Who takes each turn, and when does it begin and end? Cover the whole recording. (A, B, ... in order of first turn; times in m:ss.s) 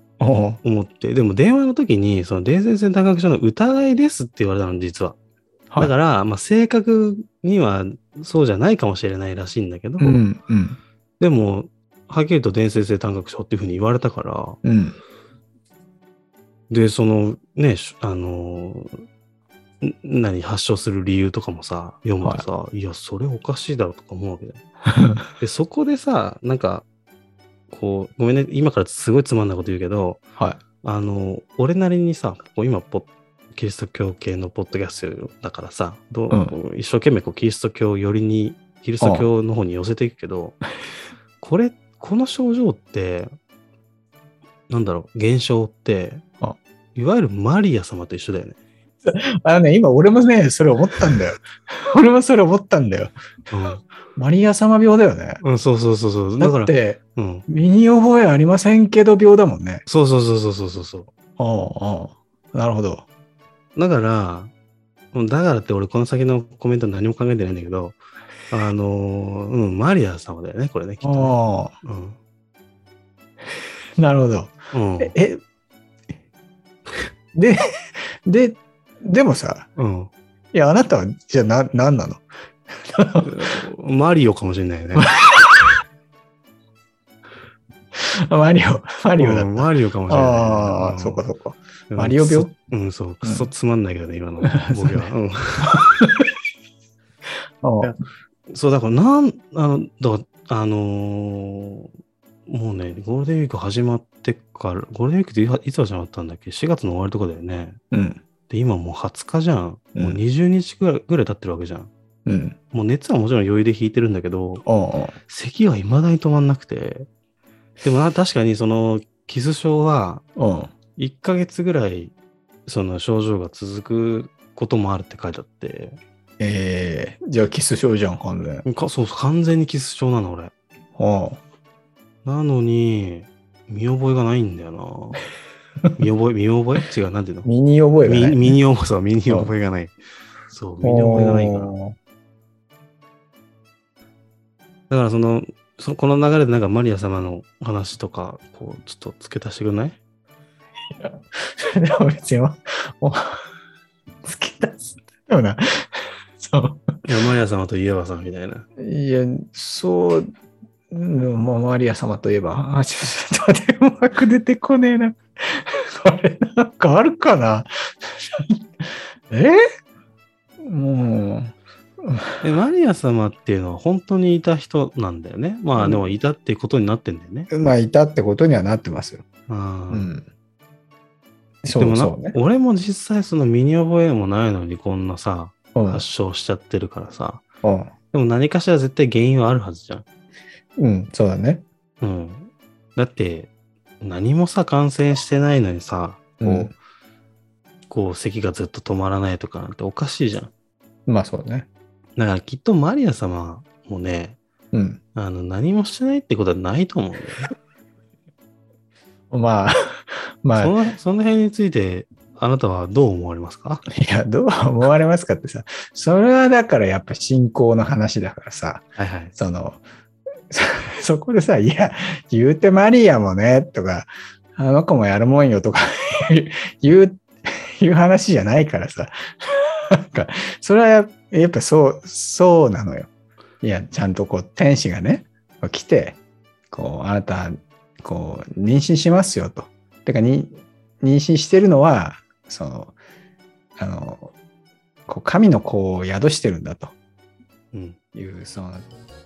0:00.2-0:00.6 A
0:00.6-0:05.2 B
0:05.8-0:10.2 B
0:10.0-0:10.8 A
0:11.2-0:14.6 B
0:14.6-0:15.0 A
0:16.7-0:19.0 B
0:19.8-0:24.6 B
0:24.9-0:25.2 A
0:25.4-0:26.9 B
0:27.7-0:30.2 B
0:30.8-0:40.6 B
0:36.3-0:36.6 A
0:39.0-0:39.3 A
0:41.4-0:43.3 B
0:44.7-0:46.2 B
0:47.0-0:48.6 B
0:49.0-0:53.1 A
0:53.5-0:53.8 B
0:54.2-0:55.4 A
0:55.4-0:57.5 B
0:56.4-0:59.8 A
0:59.9-1:01.1 B
1:01.4-1:03.1 A
1:03.8-1:04.5 B
1:05.1-1:08.0 B
1:08.5-1:12.2 B
1:11.0-1:11.7 A
1:14.0-1:15.4 A
1:14.7-1:15.2 B
1:17.4-1:19.7 A
1:19.8-1:20.1 B
1:20.5-1:22.2 A
1:22.8-1:23.5 A
1:23.2-1:25.4 B
1:25.0-1:25.4 A
1:28.0-1:32.5 A
1:29.2-1:31.2 B
1:31.9-1:36.1 B
1:33.2-1:33.5 A
1:34.5-1:35.1 A
1:35.7-1:36.2 A
1:37.6-1:37.9 A
1:37.8-1:41.9 B
1:42.5-1:47.8 B
1:47.9-1:48.2 A
1:48.5-1:51.9 B
1:50.0-1:50.2 A
1:52.3-1:52.6 A
1:52.7-1:54.6 B
1:54.6-1:55.2 A
1:55.3-1:57.1 B
1:57.8-2:00.2 B
2:00.4-2:00.7 A
2:01.0-2:02.2 B
2:02.7-2:06.0 B
2:06.4-2:08.6 A
2:08.6-2:10.5 B
2:11.0-2:11.4 A
2:12.2-2:15.2 B
2:16.0-2:17.5 B
2:17.4-2:18.6 A
2:18.0-2:19.9 B
2:20.5-2:21.8 B
2:20.8-2:22.0 A
2:24.9-2:30.0 B
2:31.0-2:33.4 A
2:34.2-2:36.8 A
2:37.0-2:38.7 B
2:38.8-2:40.3 A
2:40.9-2:49.6 A
2:50.6-2:52.5 A
2:52.4-2:57.5 B
2:55.8-2:56.0 A
2:57.5-2:59.2 A
2:59.5-3:00.1 B
2:59.9-3:00.3 A
3:01.6-3:02.4 A
3:01.8-3:07.4 B
3:05.8-3:06.0 A
3:07.6-3:07.9 A
3:08.1-3:10.0 B
3:10.8-3:11.6 A
3:12.0-3:16.8 B
3:16.4-3:16.7 A
3:17.9-3:20.5 B
3:21.1-3:21.7 A
3:22.2-3:24.4 B
3:24.7-3:25.0 A
3:25.2-3:27.5 B
3:29.3-3:30.8 A
3:30.6-3:33.8 B
3:33.9-3:39.8 A
3:39.0-3:39.3 B
3:40.5-3:53.1 A
3:53.6-3:56.2 A
3:56.7-4:03.0 A
4:03.8-4:04.3 A
4:05.1-4:07.0 A
4:07.7-4:08.0 B
4:08.1-4:08.9 A